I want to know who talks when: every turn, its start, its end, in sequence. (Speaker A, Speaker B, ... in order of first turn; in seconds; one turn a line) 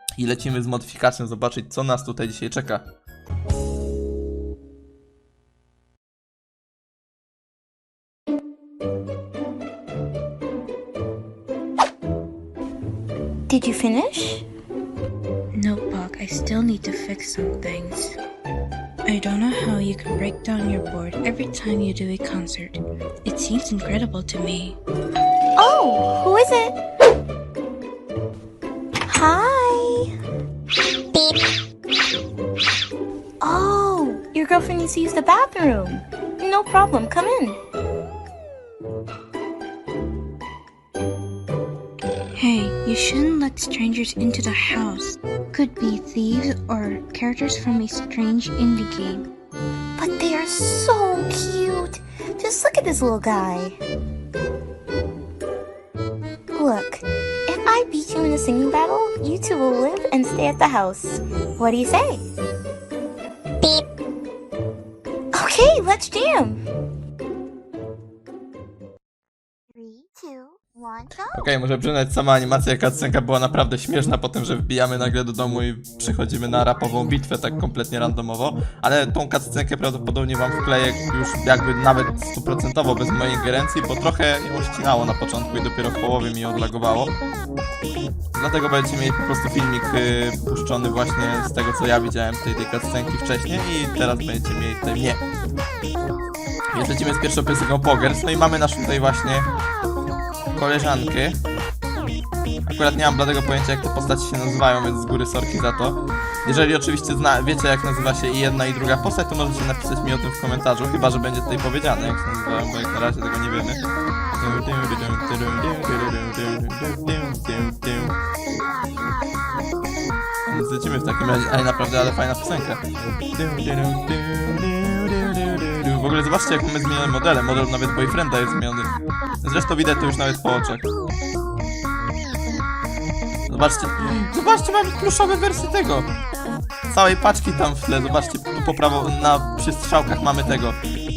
Speaker A: 0.2-2.9
Speaker B: 13.5-14.5
Speaker C: 15.5-18.2
Speaker C: 19.1-24.8
Speaker B: 25.6-26.8
Speaker B: 29.1-30.1
Speaker B: 33.4-37.6
Speaker C: 42.4-49.3
Speaker B: 50.0-53.8
Speaker B: 56.5-62.2
Speaker B: 65.3-66.6
Speaker B: 69.8-71.3
Speaker A: 71.3-87.2
Speaker A: 88.3-95.2
Speaker A: 96.7-99.5
Speaker A: 100.5-101.4
Speaker A: 102.7-113.8
Speaker A: 114.4-118.2
Speaker A: 120.5-128.9
Speaker A: 129.4-130.9
Speaker A: 133.5-136.1
Speaker A: 136.9-140.8